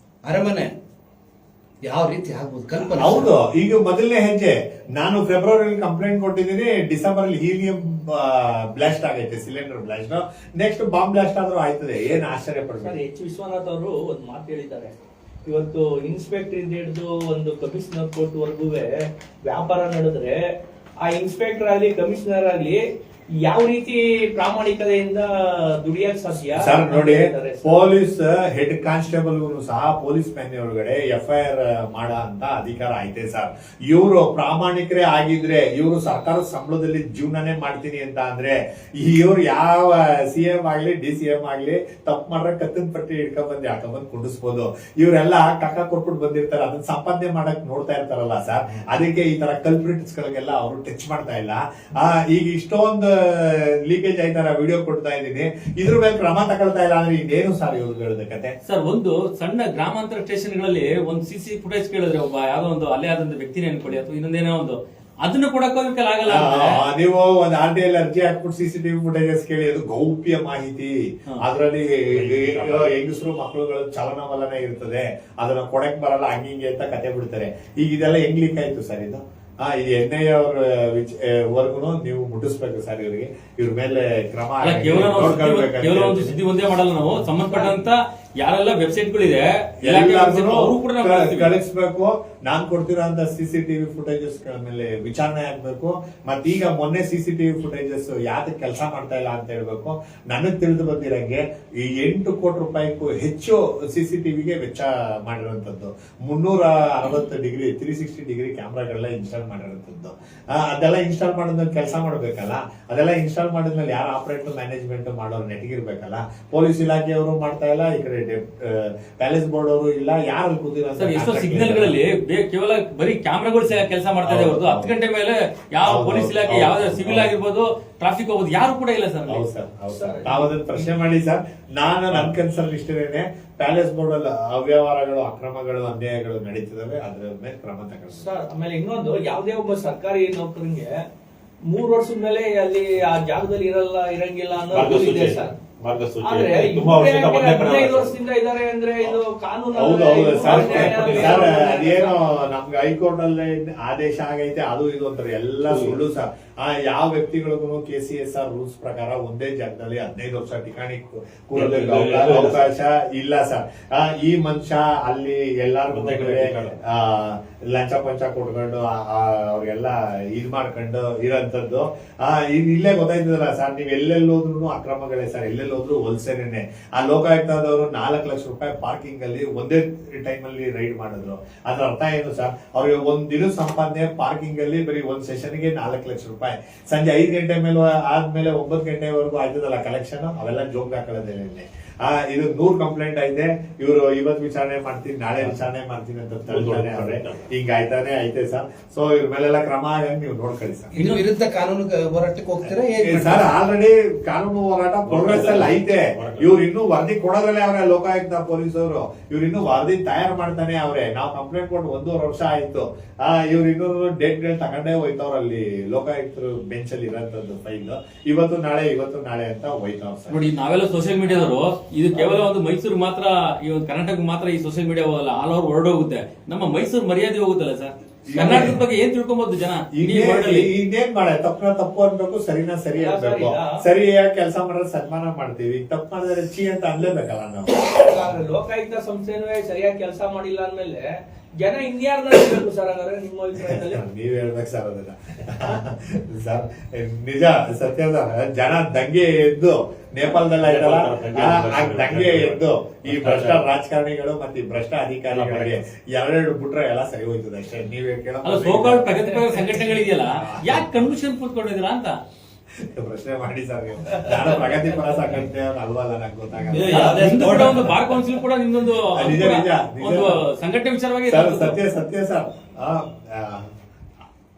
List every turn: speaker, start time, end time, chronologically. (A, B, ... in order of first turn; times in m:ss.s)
0:00.2-0:00.7 A
0:01.8-0:03.3 A
0:02.9-0:13.0 B
0:12.8-0:20.4 C
0:21.0-0:22.8 C
0:23.4-0:27.9 C
0:26.5-0:58.5 B
0:58.7-1:06.8 D
1:06.3-1:26.4 B
1:12.1-1:12.9 E
1:24.6-1:31.5 D
1:29.8-2:01.9 B
2:01.0-2:09.4 D
2:04.2-2:04.9 B
2:05.8-2:07.3 B
2:09.3-2:18.4 B
2:09.9-2:10.6 C
2:18.1-2:20.9 C
2:21.7-2:25.6 C
2:24.7-2:28.2 E
2:26.2-2:32.2 C
2:29.8-3:21.0 B
2:30.4-2:31.5 E
2:35.6-2:36.0 E
2:41.5-2:42.7 E
2:45.9-2:46.8 E
3:16.5-3:17.5 E
3:21.0-3:23.6 A
3:23.0-3:40.4 B
3:25.0-3:26.5 E
3:40.3-3:50.7 D
3:48.3-3:48.8 B
3:50.0-3:57.9 B
3:53.0-3:53.8 C
3:57.9-4:04.0 C
4:03.6-4:19.3 B
4:10.4-4:13.6 E
4:15.3-4:15.8 E
4:18.4-4:22.2 D
4:20.3-4:21.0 B
4:22.8-4:27.2 B
4:26.7-4:28.2 E
4:26.8-4:31.8 D
4:29.2-4:30.4 B
4:31.3-4:33.7 B